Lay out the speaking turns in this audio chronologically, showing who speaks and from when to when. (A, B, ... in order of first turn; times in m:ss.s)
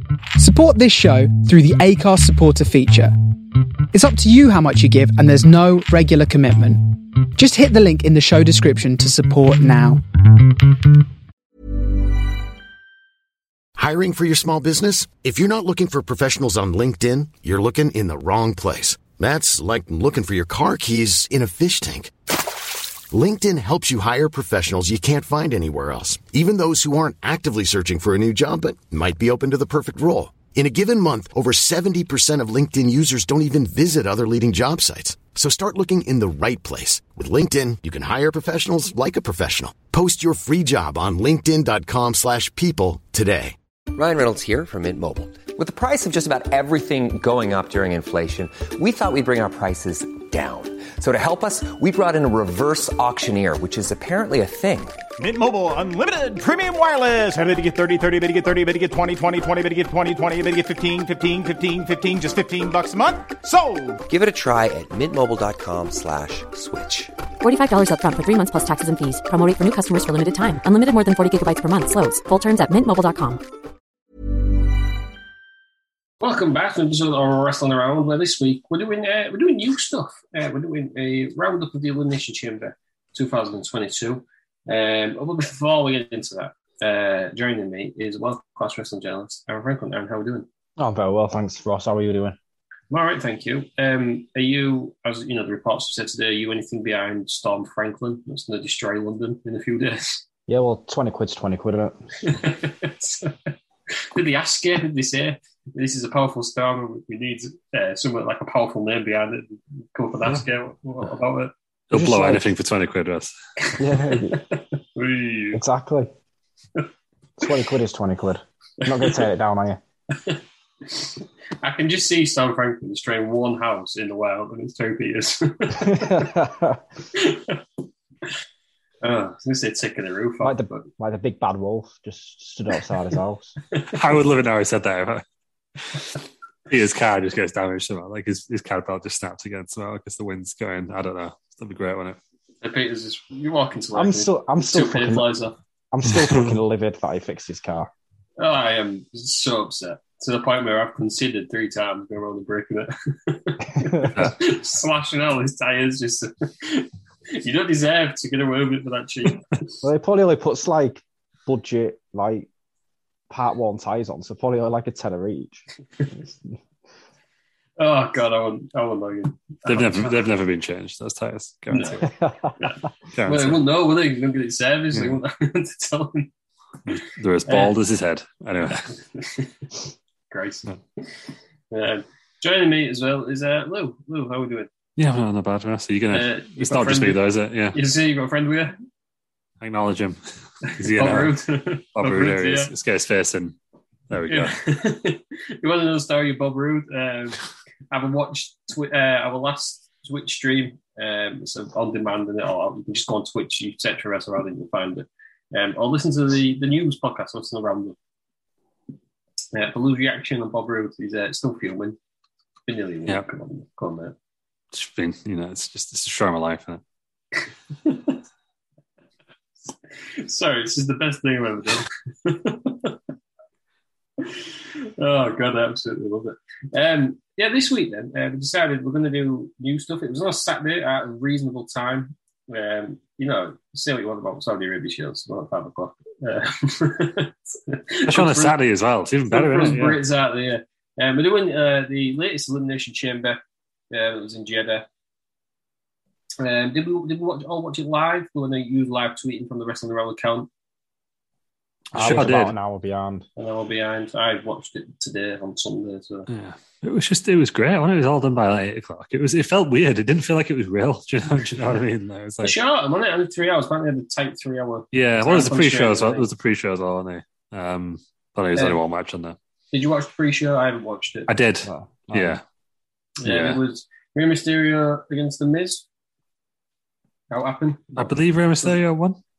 0:00.4-0:03.1 A
0:03.9-0:10.0 A
0:13.8-0:22.1 B
0:23.1-0:43.6 B
0:43.9-0:55.0 C
0:55.2-1:04.0 D
1:04.1-1:07.1 C
1:07.4-1:13.4 E
1:16.2-1:30.5 F
1:30.8-1:32.4 G
1:32.9-1:40.2 F
1:40.5-1:42.0 G
1:42.2-1:51.5 F
1:51.9-1:53.3 H
1:51.9-1:52.5 G
1:53.6-1:55.6 F
1:53.8-1:54.4 G
1:55.5-1:56.1 G
1:57.4-1:59.8 G
1:58.8-1:59.2 F
2:00.1-2:06.4 F
2:05.7-2:06.8 G
2:07.1-2:07.6 F
2:09.0-2:10.9 F
2:10.4-2:13.5 G
2:13.8-2:15.2 H
2:15.9-2:22.2 H
2:22.6-2:25.5 F
2:23.9-2:25.3 G
2:25.9-2:27.9 G
2:26.1-2:26.4 H
2:28.4-2:39.6 F
2:34.2-2:34.4 H
2:39.8-2:42.5 G
2:43.3-2:45.6 G
2:46.2-2:46.5 G
2:47.8-2:50.3 F
2:49.6-2:52.2 H
2:51.7-2:52.0 F
2:52.0-2:52.5 G
2:52.6-2:56.3 F
2:53.1-2:53.6 H
2:56.9-2:58.9 H
2:57.5-2:57.7 F
2:58.9-2:59.6 F
3:00.3-3:04.7 F
3:05.0-3:07.8 H
3:06.1-3:07.2 F
3:07.7-3:08.8 F
3:09.6-3:11.4 H
3:10.7-3:12.7 F
3:11.9-3:13.6 H
3:14.1-3:14.6 H
3:14.3-3:17.4 F
3:17.9-3:28.0 F
3:29.5-3:32.0 F
3:32.7-3:34.1 F
3:34.7-3:36.8 H
3:37.8-3:38.2 F
3:39.9-3:43.0 F
3:44.2-3:58.5 F
3:58.0-4:00.0 H
3:59.3-4:03.4 F
4:03.9-4:04.8 F
4:06.4-4:10.5 F
4:11.9-4:12.5 H
4:11.9-4:13.3 G
4:13.4-4:16.3 F
4:16.3-4:22.6 H
4:22.4-4:26.3 F
4:24.9-4:29.4 H
4:29.7-4:31.3 F
4:31.3-4:32.4 H
4:31.6-4:32.4 G
4:33.2-4:35.8 F
4:33.2-4:33.6 H
4:37.3-4:38.8 F
4:38.0-4:39.2 H